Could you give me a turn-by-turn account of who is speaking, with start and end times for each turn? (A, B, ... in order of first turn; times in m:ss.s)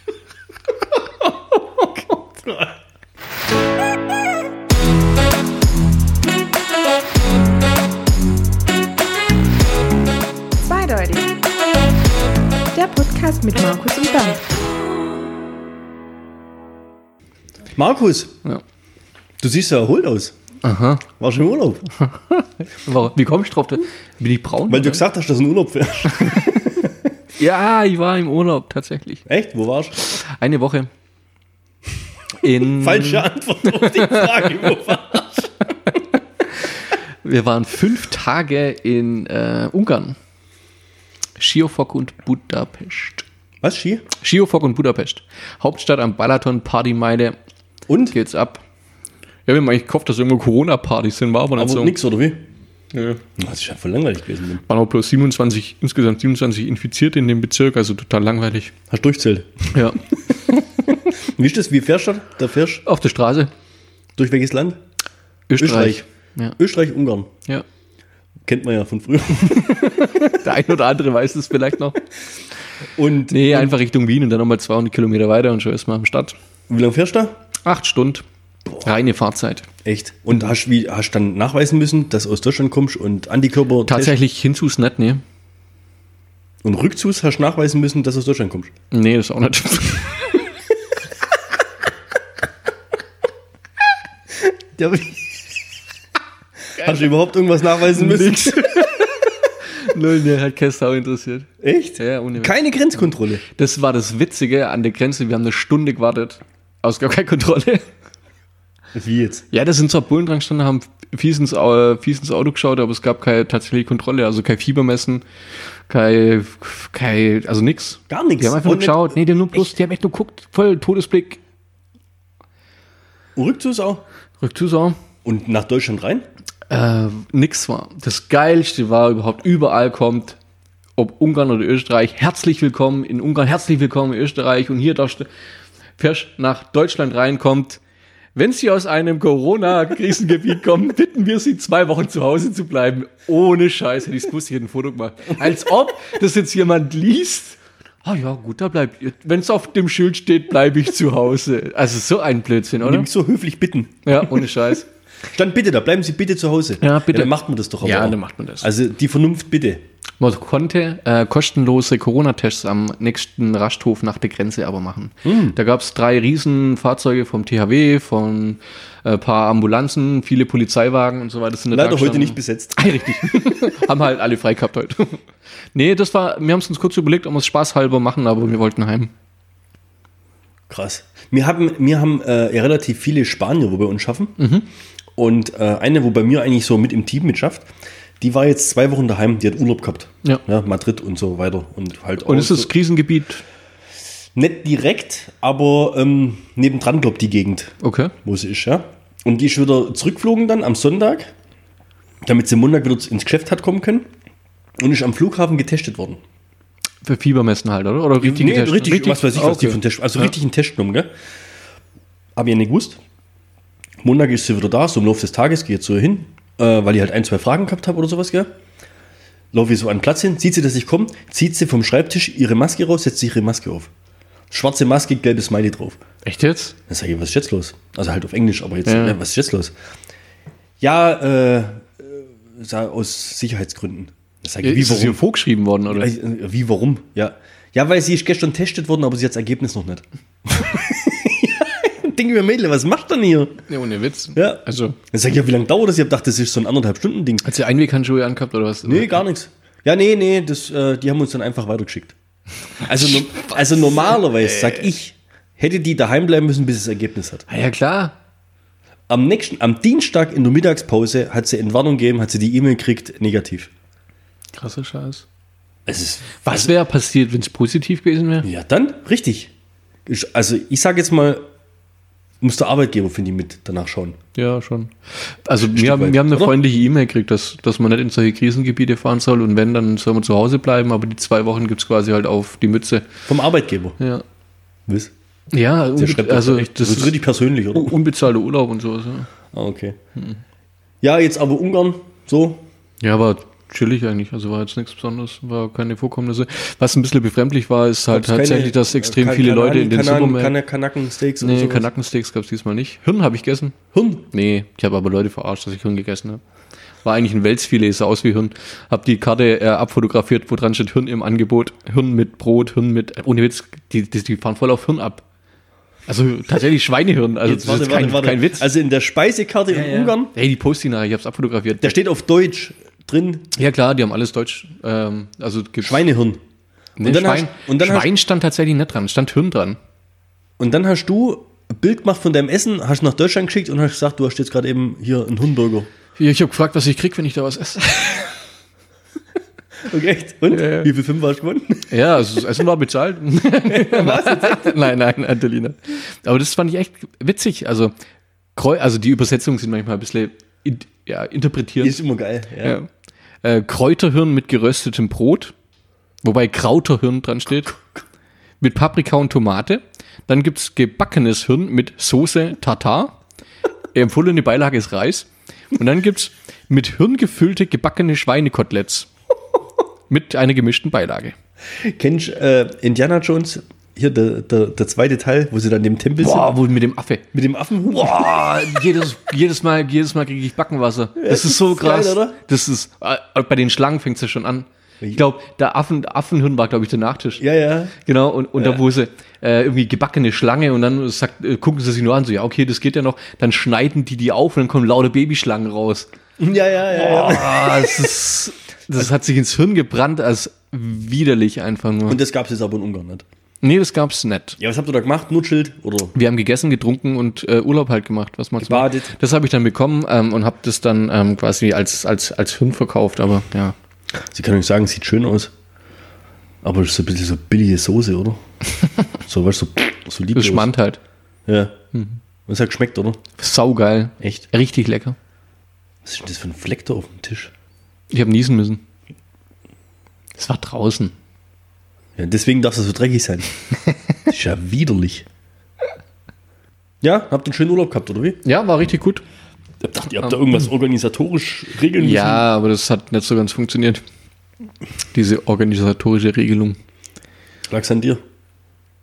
0:10.6-0:11.4 A
0:12.7-0:14.4 A
0:17.7-0:18.4 B
0:19.4-0:20.4 B
0:20.6-0:21.1 C
0:21.1-0:21.9 B
0:22.1-0:25.0 C
0:24.7-0:26.9 B
0:26.2-0:26.6 C
0:27.4-0:29.2 C
0:29.3-0:30.0 B
0:30.0-0:30.9 C
0:32.4-0:34.7 C
0:32.6-0:35.5 B
0:37.2-0:40.2 C
0:41.4-0:43.2 C
0:43.6-0:44.1 B
0:44.2-0:47.4 C
0:47.9-0:48.2 B
0:48.1-0:48.6 C
0:49.5-0:52.0 C
0:51.6-0:52.4 B
0:52.9-0:53.2 C
0:53.4-0:54.6 B
0:54.7-0:58.7 C
0:58.9-0:59.9 B
0:59.7-1:00.0 C
1:01.1-1:02.8 B
1:02.8-1:03.5 C
1:04.2-1:04.8 B
1:05.5-1:06.6 C
1:05.6-1:06.0 B
1:06.6-1:07.3 B
1:08.5-1:10.3 B
1:09.5-1:12.0 C
1:13.0-1:13.7 B
1:13.3-1:16.4 C
1:16.7-1:17.4 B
1:17.6-1:18.2 C
1:18.8-1:19.7 C
1:19.8-1:24.2 B
1:23.9-1:25.2 C
1:26.6-1:28.7 B
1:28.9-1:30.2 C
1:34.5-1:35.4 B
1:36.8-1:38.8 B
1:37.9-1:42.6 C
1:41.6-1:43.4 B
1:43.4-1:47.9 C
1:48.9-1:49.4 B
1:49.5-1:55.2 C
1:55.9-2:01.4 C
1:58.1-1:59.7 B
2:03.4-2:04.0 B
2:04.4-2:05.0 C
2:05.2-2:06.3 B
2:06.7-2:10.4 C
2:11.0-2:15.3 C
2:16.0-2:17.8 C
2:18.4-2:33.1 C
2:32.8-2:34.5 B
2:34.0-2:34.9 C
2:35.3-2:39.8 B
2:36.8-2:38.7 C
2:40.2-2:55.2 C
2:45.2-2:45.6 B
2:51.7-2:53.0 B
2:55.7-2:59.1 C
3:00.7-3:04.4 B
3:04.4-3:04.7 C
3:05.2-3:07.7 B
3:08.2-3:12.7 B
3:12.2-3:13.4 C
3:14.4-3:21.3 B
3:17.8-3:18.1 C
3:22.2-3:24.1 B
3:24.8-3:26.2 B
3:27.0-3:30.3 C
3:28.2-3:31.1 B
3:32.4-3:33.0 B
3:34.0-3:38.5 B
3:39.5-3:43.9 B
3:44.5-3:46.0 B
3:46.2-3:46.8 C
3:46.9-3:49.7 B
3:48.8-3:49.2 C
3:50.8-3:55.2 B
3:54.6-3:56.1 C
3:55.9-4:03.6 B
4:03.7-4:05.0 C
4:04.4-4:07.5 B
4:07.4-4:09.2 C
4:08.8-4:12.2 B
4:12.8-4:17.5 B
4:17.5-4:18.2 C
4:19.1-4:23.7 B
4:24.5-4:25.2 C
4:25.9-4:26.7 B
4:26.4-4:28.5 C
4:28.4-4:29.5 B
4:30.1-4:31.4 B
4:32.4-4:34.2 B
4:34.4-4:43.1 C
4:35.6-4:36.6 B
4:43.3-4:44.0 B
4:44.0-4:44.2 C
4:44.9-4:45.1 B
4:45.5-4:47.2 C
4:46.0-4:48.0 B
4:47.7-4:49.3 C
4:49.5-4:50.0 B
4:51.0-4:52.6 B
4:53.0-5:00.5 C
4:58.1-5:01.9 B
5:01.4-5:03.8 C
5:03.9-5:04.3 B
5:04.3-5:06.4 C
5:07.0-5:15.2 C
5:16.1-5:18.6 C
5:17.4-5:20.3 B
5:19.7-5:22.0 C
5:21.8-5:23.5 B
5:23.6-5:26.1 C
5:25.8-5:26.4 B
5:27.0-5:29.8 C
5:27.0-5:28.1 B
5:30.6-5:35.9 B
5:36.2-5:38.4 C
5:39.8-5:41.9 B
5:40.5-5:40.9 C
5:41.9-5:47.9 C
5:43.6-5:44.8 B
5:48.6-5:52.0 C
5:51.8-5:52.8 B
5:52.6-5:52.9 C
5:53.4-5:55.5 C
5:56.2-5:57.7 C
5:58.6-6:03.2 C
6:03.9-6:09.1 C
6:10.1-6:11.4 C
6:11.8-6:16.5 B
6:16.2-6:17.2 C
6:17.3-6:18.7 B
6:18.0-6:27.4 C
6:21.2-6:22.4 B
6:27.4-6:28.0 B
6:28.0-6:36.1 C
6:28.6-6:28.8 B
6:36.4-6:38.1 B
6:36.9-6:42.2 C
6:42.1-6:43.2 B
6:43.6-6:44.6 C
6:44.6-6:46.2 B
6:46.1-6:53.8 C
6:48.6-6:49.1 B
6:54.3-6:55.5 B
6:56.6-6:58.4 B
6:59.2-7:00.7 B
7:00.3-7:01.0 C
7:01.5-7:01.8 B
7:01.9-7:02.2 C
7:02.5-7:03.2 B
7:03.4-7:05.2 C
7:04.2-7:04.4 B
7:06.0-7:07.5 B
7:08.1-7:08.8 C
7:10.4-7:11.1 C
7:12.2-7:13.5 B
7:14.3-7:15.3 B
7:17.0-7:18.4 B
7:18.4-7:19.2 C
7:19.8-7:22.4 B
7:22.0-7:24.0 C
7:25.1-7:26.8 C
7:27.7-7:28.2 B